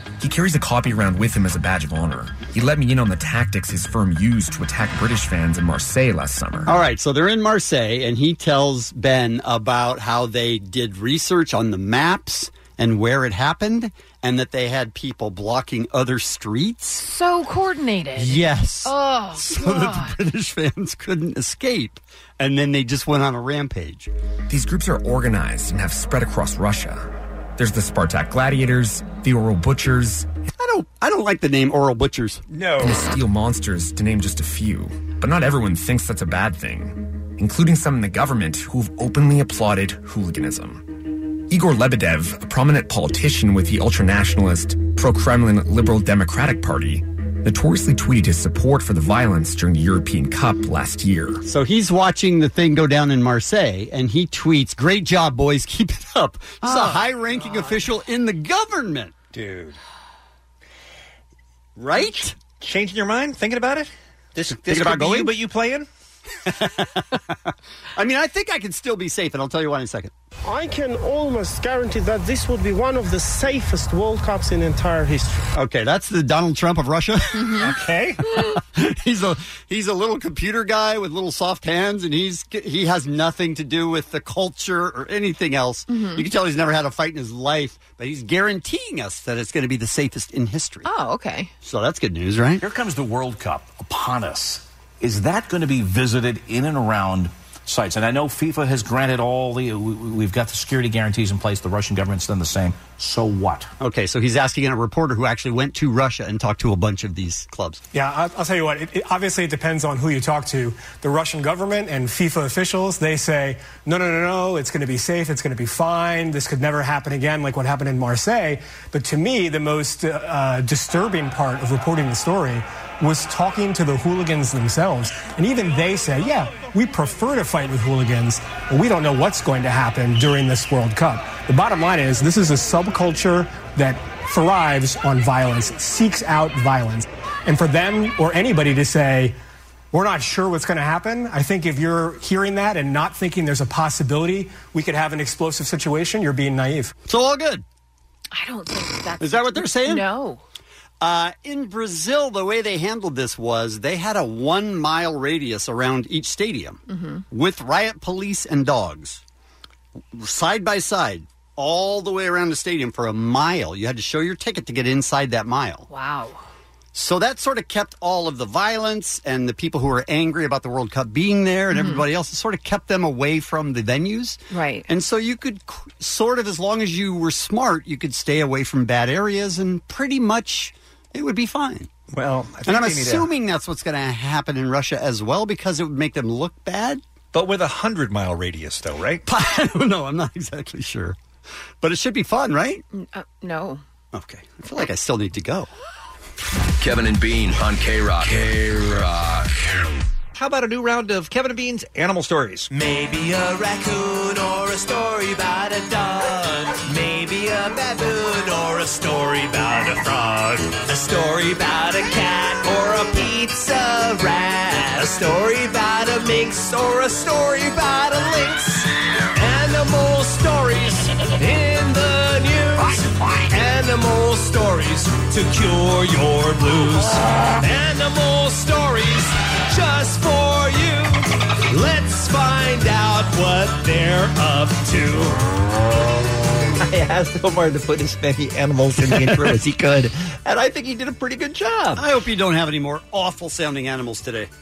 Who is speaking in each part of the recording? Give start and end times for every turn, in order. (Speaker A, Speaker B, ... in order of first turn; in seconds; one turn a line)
Speaker A: 0.2-6.7
Speaker B: 6.7-17.0
Speaker C: 17.0-20.1
Speaker B: 18.2-24.1
Speaker A: 24.5-30.3
Speaker B: 30.6-32.4
Speaker A: 32.8-51.4
Speaker B: 51.4-59.1
Speaker D: 59.3-59.8
Speaker D: 61.8-65.9
Speaker B: 61.9-62.3
Speaker B: 64.5-65.3
Speaker B: 66.5-70.1
Speaker E: 70.5-75.4
Speaker B: 75.5-90.9
Speaker D: 77.6-78.2
Speaker C: 85.9-86.2
Speaker C: 90.8-91.5
Speaker B: 91.6-92.6
Speaker F: 92.6-103.7
Speaker B: 103.8-107.8
Speaker G: 107.9-139.3
Speaker G: 139.9-146.9
Speaker B: 147.1-147.6
Speaker C: 148.3-150.4
Speaker B: 149.2-150.1
Speaker B: 151.0-159.2
Speaker C: 156.9-157.2
Speaker B: 160.1-165.9
Speaker C: 165.9-166.4
Speaker B: 166.9-181.9
Speaker C: 171.7-172.0
Speaker C: 174.5-174.8
Speaker D: 182.1-183.3
Speaker B: 182.7-187.0
Speaker D: 187.3-189.2
Speaker B: 189.2-191.2
Speaker B: 191.8-192.8
Speaker C: 192.9-193.8
Speaker B: 194.1-195.7
Speaker H: 196.8-199.8
Speaker D: 200.3-202.7
Speaker I: 202.7-235.4
Speaker D: 236.8-242.0
Speaker B: 241.9-244.5